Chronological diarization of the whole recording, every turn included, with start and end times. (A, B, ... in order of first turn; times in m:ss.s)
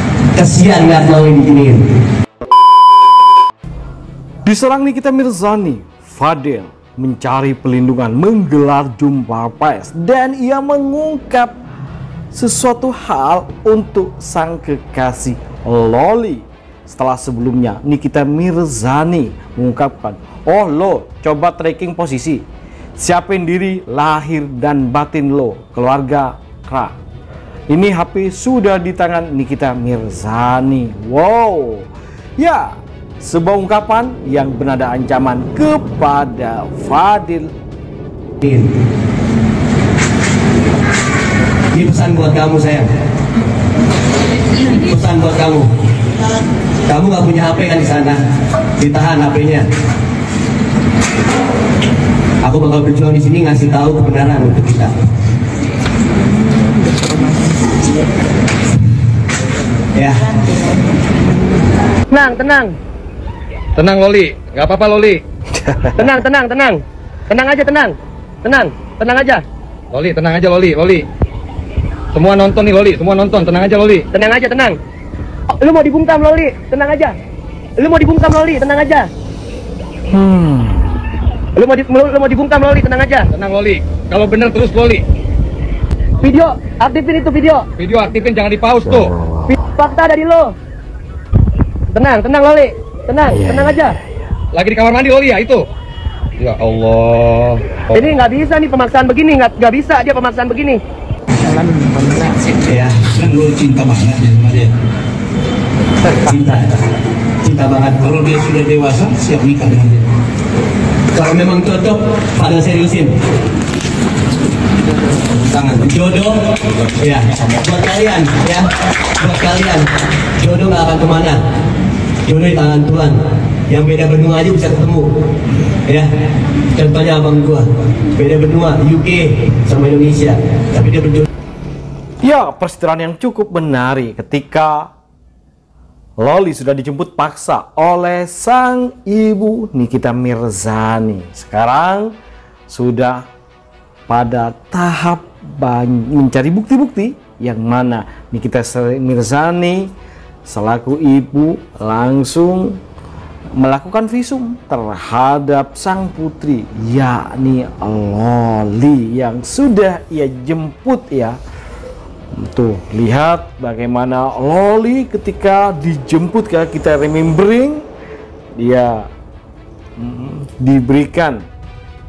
0:00.3-0:01.8 A
0:04.4-0:11.5 B
0:12.3-0:22.4 B
0:23.0-0:27.0 B
0:27.7-0:37.5 B
0:41.7-0:42.9 A
0:44.6-0:45.7 A
0:46.8-0:48.2 A
0:48.8-0:49.7 A
0:52.4-0:54.9 A
0:59.9-1:00.3 A
1:02.1-1:02.7 C
1:03.8-1:05.2 D
1:05.5-1:06.1 B
1:06.0-1:09.4 C
1:09.9-1:11.1 D
1:12.1-1:14.1 D
1:14.1-1:14.8 C
1:15.5-1:17.1 C
1:17.8-1:19.1 C
1:20.1-1:21.0 B
1:21.6-1:23.3 C
1:23.3-1:25.0 D
1:26.2-1:27.7 C
1:27.8-1:29.1 D
1:28.8-1:29.6 B
1:29.6-1:30.5 C
1:31.9-1:33.9 C
1:33.3-1:34.3 B
1:34.5-1:35.6 D
1:36.4-1:37.8 D
1:37.9-1:40.8 C
1:42.6-1:43.1 A
1:43.1-1:44.7 E
1:46.0-1:46.7 A
1:47.4-1:48.1 A
1:48.0-1:50.1 E
1:51.1-1:53.1 A
1:55.4-2:01.4 A
2:02.2-2:03.2 A
2:03.7-2:05.1 A
2:06.7-2:11.2 A
2:12.2-2:14.9 B
2:16.2-2:22.1 B
2:22.7-2:23.2 B
2:24.1-2:29.9 B
2:30.4-2:32.8 B
2:33.6-2:41.4 B
2:42.3-2:47.9 B
2:48.6-2:49.1 B
2:50.0-2:51.4 B